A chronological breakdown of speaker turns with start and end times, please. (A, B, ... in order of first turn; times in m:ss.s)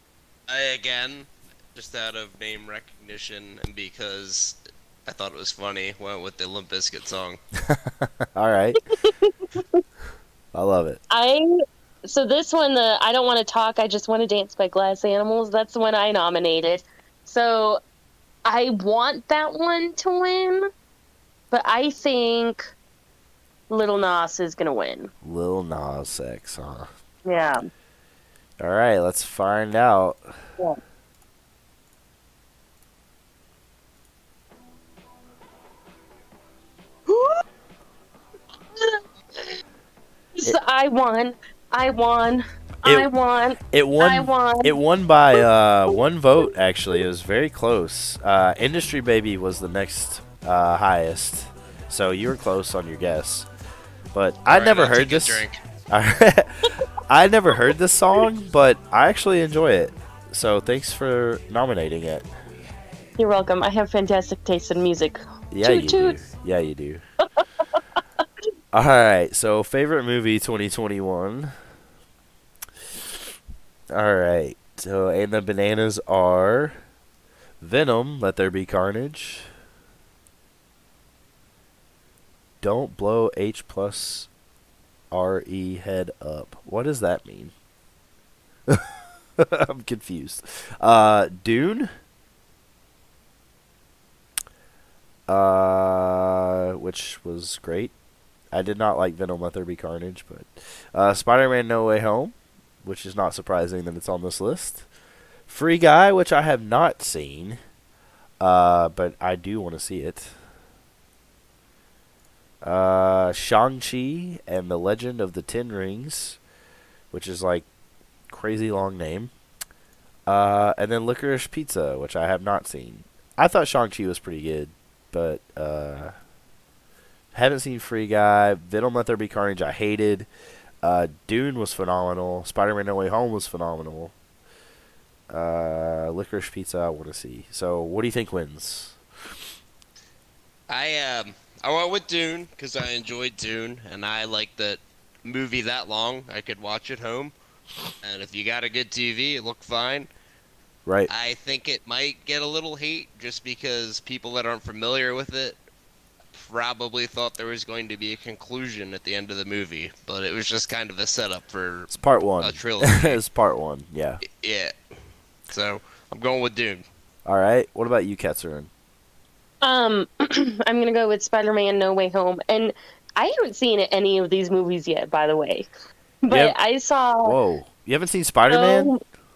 0:00.5-0:07.4 A
0:07.7-0:08.8 B
0:09.0-0:09.8 C
0:10.5-0:11.0 B
0:11.1-0:11.5 C
0:12.1-0:17.8 C
0:18.4-0:20.7 C
0:21.5-0:22.7 C
0:23.7-0:25.1 C
0:25.2-0:26.9 B
0:27.2-0:27.6 C
0:28.6-0:30.4 B
0:37.1-0:37.4 C
0:38.8-0:39.6 C
0:40.4-0:44.8 C
0:42.8-0:43.1 B
0:43.7-0:53.5 B
0:54.1-1:02.3 B
0:54.5-0:55.6 A
1:03.2-1:06.2 C
1:05.5-1:07.0 B
1:07.4-1:07.8 C
1:08.7-1:11.5 B
1:13.9-1:16.8 B
1:17.6-1:19.5 B
1:22.6-1:24.3 B
1:25.1-1:27.5 B
1:29.4-1:31.9 B
1:35.3-1:37.9 B
1:38.5-1:44.9 B
1:45.5-1:47.6 B
1:48.4-1:50.3 B
1:52.6-1:56.4 B
1:57.1-1:57.7 B
1:58.3-1:59.3 B
2:00.3-2:06.2 B
2:07.3-2:10.3 B
2:10.8-2:14.1 B
2:15.3-2:19.0 B
2:20.7-2:27.3 A
2:28.0-2:30.1 A
2:31.1-2:35.6 A
2:36.3-2:41.9 A
2:41.9-2:44.2 B
2:42.4-2:43.2 A
2:44.2-2:44.8 A
2:45.5-2:46.8 A
2:47.2-2:48.7 B
2:49.6-2:55.7 C
2:56.2-2:57.4 C
2:56.3-2:56.6 B
2:57.2-2:58.9 B
2:58.5-2:59.0 C